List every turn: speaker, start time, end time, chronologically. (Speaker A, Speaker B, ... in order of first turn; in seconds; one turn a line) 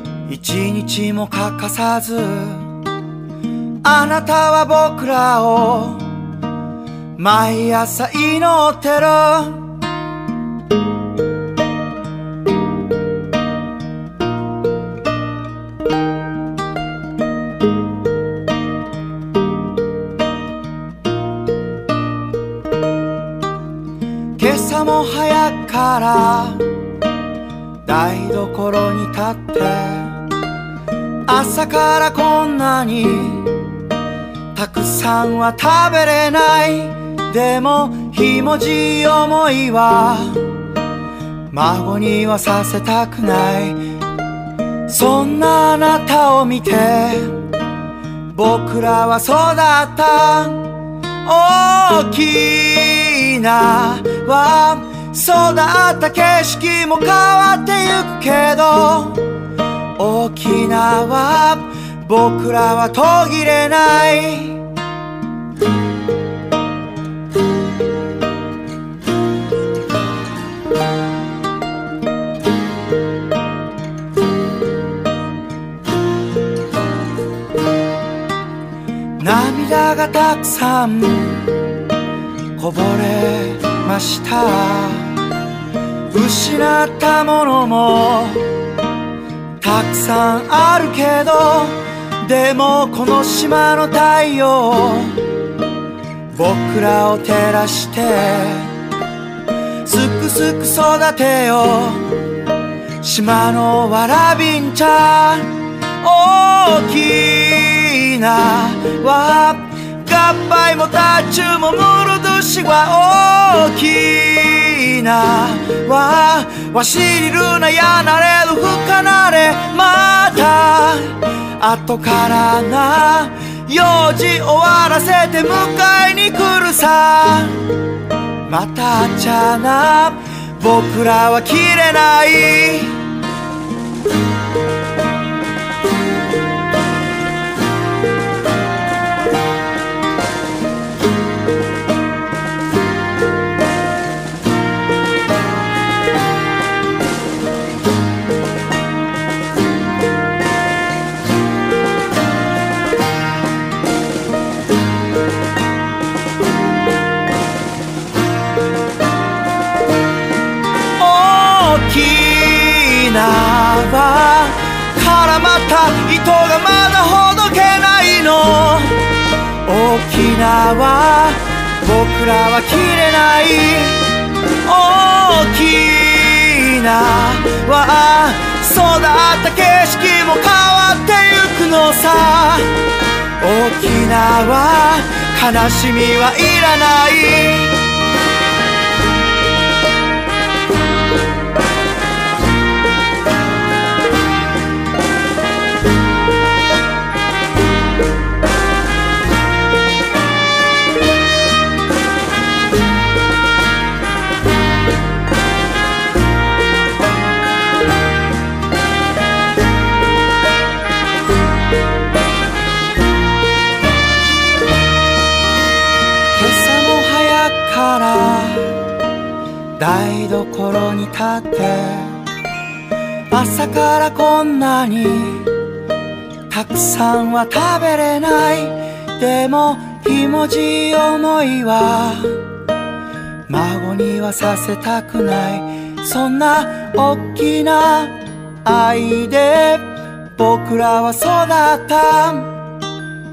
Speaker A: 0.2-2.8
Speaker A: 3.8-6.1
Speaker A: 7.2-9.8
Speaker A: 24.4-26.7
Speaker A: 27.8-30.2
Speaker A: 31.3-33.5
Speaker A: 34.5-40.5
Speaker A: 41.5-43.8
Speaker A: 44.9-47.4
Speaker A: 48.3-59.2
Speaker A: 60.0-64.6
Speaker A: 79.2-81.5
Speaker A: 82.6-85.2
Speaker A: 86.1-88.5
Speaker A: 89.6-95.2
Speaker A: 96.3-98.7
Speaker A: 99.8-102.1
Speaker A: 103.0-127.6
Speaker A: 128.5-133.1
Speaker A: 161.0-169.0
Speaker A: 169.6-174.1
Speaker A: 174.6-182.7
Speaker A: 183.4-187.7
Speaker A: 216.3-218.8
Speaker A: 219.8-222.2
Speaker A: 223.3-225.5
Speaker A: 226.5-232.4
Speaker A: 233.5-242.5